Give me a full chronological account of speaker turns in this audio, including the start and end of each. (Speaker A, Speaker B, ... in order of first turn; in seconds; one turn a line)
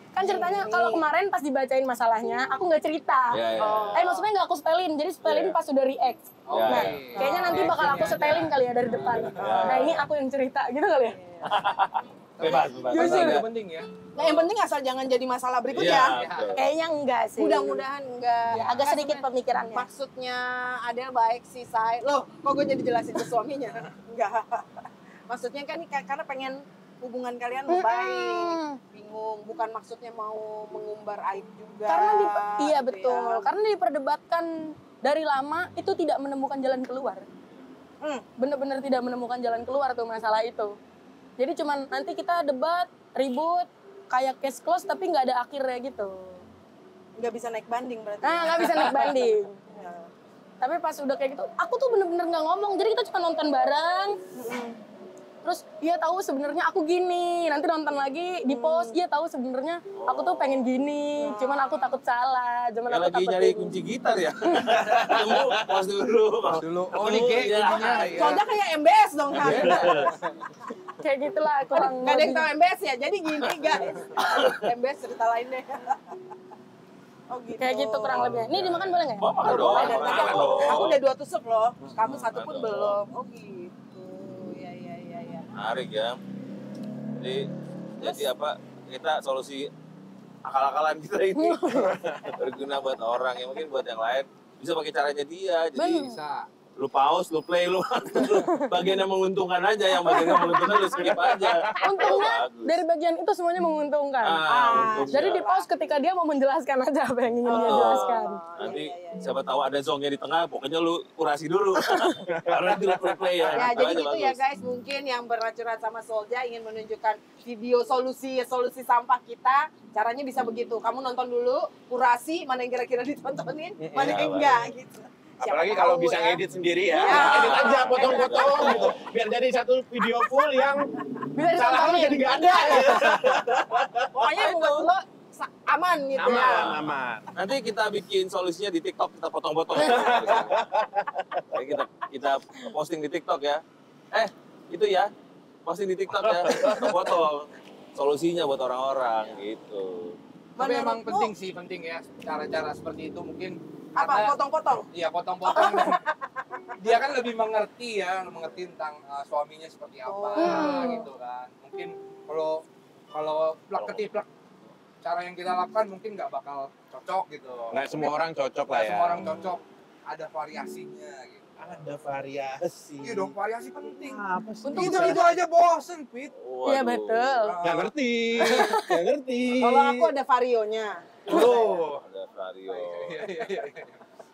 Speaker A: 0.1-3.4
Speaker B: 0.2-1.1
Speaker C: 3.3-4.1
Speaker B: 3.6-4.3
Speaker A: 3.9-11.2
Speaker C: 5.2-5.6
Speaker D: 6.5-9.6
Speaker C: 6.5-7.0
Speaker B: 7.2-7.8
Speaker C: 9.4-10.1
Speaker B: 9.4-9.9
Speaker B: 11.1-11.5
Speaker C: 11.4-13.4
Speaker D: 12.4-14.4
Speaker A: 12.8-13.4
Speaker B: 14.2-16.2
Speaker C: 15.7-16.6
Speaker D: 15.9-16.6
Speaker A: 16.6-17.8
Speaker B: 17.4-33.5
Speaker A: 18.5-19.9
Speaker A: 27.7-28.8
Speaker A: 31.9-34.5
Speaker A: 35.0-37.2
Speaker A: 38.4-40.7
Speaker A: 41.4-46.4
Speaker B: 47.2-50.1
Speaker A: 48.2-49.5
Speaker A: 50.6-54.2
Speaker B: 54.4-54.8
Speaker A: 55.4-63.8
Speaker B: 58.5-59.0
Speaker C: 60.0-60.7
Speaker B: 61.2-62.0
Speaker C: 62.9-68.3
Speaker D: 66.5-68.4
Speaker B: 68.1-70.1
Speaker C: 69.4-70.1
Speaker D: 69.4-70.2
Speaker A: 71.0-72.5
Speaker B: 71.7-76.0
Speaker C: 74.2-74.6
Speaker B: 77.3-78.5
Speaker A: 77.6-80.5
Speaker C: 78.5-81.0
Speaker B: 79.4-85.5
Speaker E: 80.3-80.8
Speaker C: 82.0-83.0
Speaker C: 85.5-86.2
Speaker C: 87.2-87.5
Speaker C: 88.0-89.7
Speaker B: 88.0-88.3
Speaker C: 90.4-91.6
Speaker A: 91.4-91.9
Speaker E: 91.7-92.4
Speaker C: 92.4-96.1
Speaker A: 95.8-96.2
Speaker D: 96.0-96.5
Speaker C: 96.8-102.8
Speaker A: 98.2-98.6
Speaker A: 100.0-101.1
Speaker E: 101.3-101.9
Speaker A: 101.8-104.4
Speaker C: 104.2-105.5
Speaker B: 104.5-105.7
Speaker A: 105.1-108.8
Speaker B: 107.5-109.3
Speaker C: 107.5-114.4
Speaker E: 112.3-113.6
Speaker B: 113.5-126.4
Speaker E: 123.8-124.4
Speaker C: 124.0-124.6
Speaker E: 125.4-130.9
Speaker B: 126.9-129.0
Speaker C: 127.0-129.0
Speaker A: 131.3-133.1
Speaker E: 131.5-134.1
Speaker B: 132.6-133.3
Speaker B: 134.1-136.8
Speaker C: 134.4-134.9
Speaker E: 136.2-137.3
Speaker C: 136.3-140.6
Speaker E: 139.7-141.5
Speaker C: 141.5-145.1
Speaker C: 145.7-150.2
Speaker E: 146.1-147.2
Speaker B: 150.6-151.3
Speaker D: 150.6-154.3
Speaker B: 154.0-154.9
Speaker D: 154.9-156.0
Speaker B: 155.4-156.7
Speaker D: 156.8-164.3
Speaker B: 160.1-161.1
Speaker A: 160.4-161.1
Speaker D: 165.0-167.8
Speaker E: 167.7-169.4
Speaker D: 168.7-171.8
Speaker E: 171.6-175.3
Speaker D: 173.0-176.3
Speaker A: 174.6-175.3
Speaker C: 176.4-177.4
Speaker A: 176.7-177.6
Speaker D: 177.4-177.9
Speaker E: 177.6-180.1
Speaker A: 178.4-179.0
Speaker B: 179.6-181.7
Speaker E: 181.3-182.0
Speaker D: 181.3-182.0
Speaker C: 182.0-183.2
Speaker D: 182.7-184.0